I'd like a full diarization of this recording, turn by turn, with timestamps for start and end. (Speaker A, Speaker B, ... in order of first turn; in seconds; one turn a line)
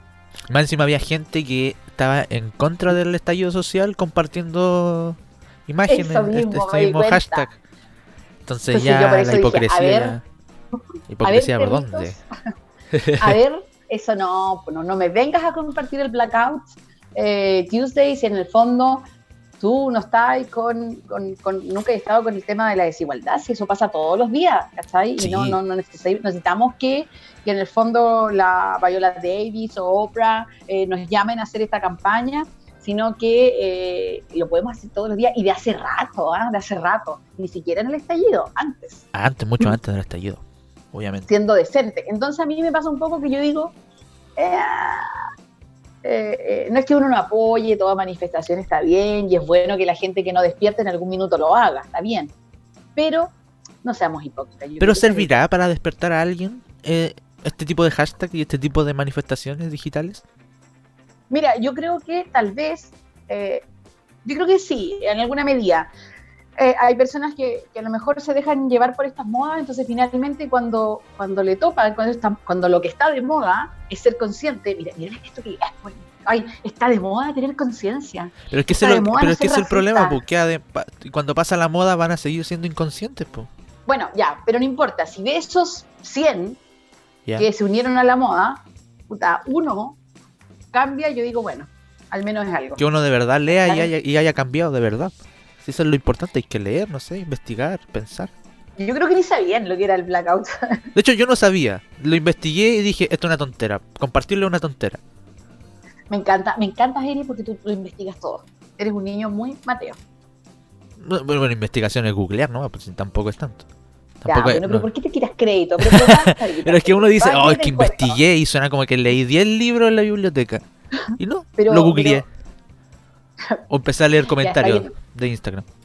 Speaker A: 0.5-7.6
Speaker B: 5.9-7.5
Speaker A: 8.5-10.2
Speaker B: 8.7-10.2
Speaker A: 11.1-12.2
Speaker B: 11.2-12.3
Speaker A: 12.9-13.4
Speaker B: 13.2-19.1
Speaker B: 19.6-39.1
Speaker A: 25.2-25.6
Speaker A: 39.1-41.3
Speaker B: 41.3-43.7
Speaker B: 44.4-45.2
Speaker B: 46.0-52.3
Speaker B: 53.0-53.3
Speaker B: 53.8-55.3
Speaker A: 54.8-60.2
Speaker B: 61.3-63.6
Speaker B: 64.2-65.9
Speaker B: 66.6-80.2
Speaker A: 78.5-83.5
Speaker B: 83.9-86.6
Speaker B: 87.4-90.0
Speaker B: 90.7-92.8
Speaker A: 92.8-98.3
Speaker B: 93.6-93.9
Speaker B: 98.8-100.8
Speaker A: 100.9-105.0
Speaker B: 106.1-110.0
Speaker A: 111.0-113.6
Speaker A: 114.2-114.9
Speaker B: 114.3-118.2
Speaker A: 115.8-120.7
Speaker B: 121.0-122.2
Speaker A: 121.2-122.3
Speaker A: 123.7-125.7
Speaker B: 124.3-124.9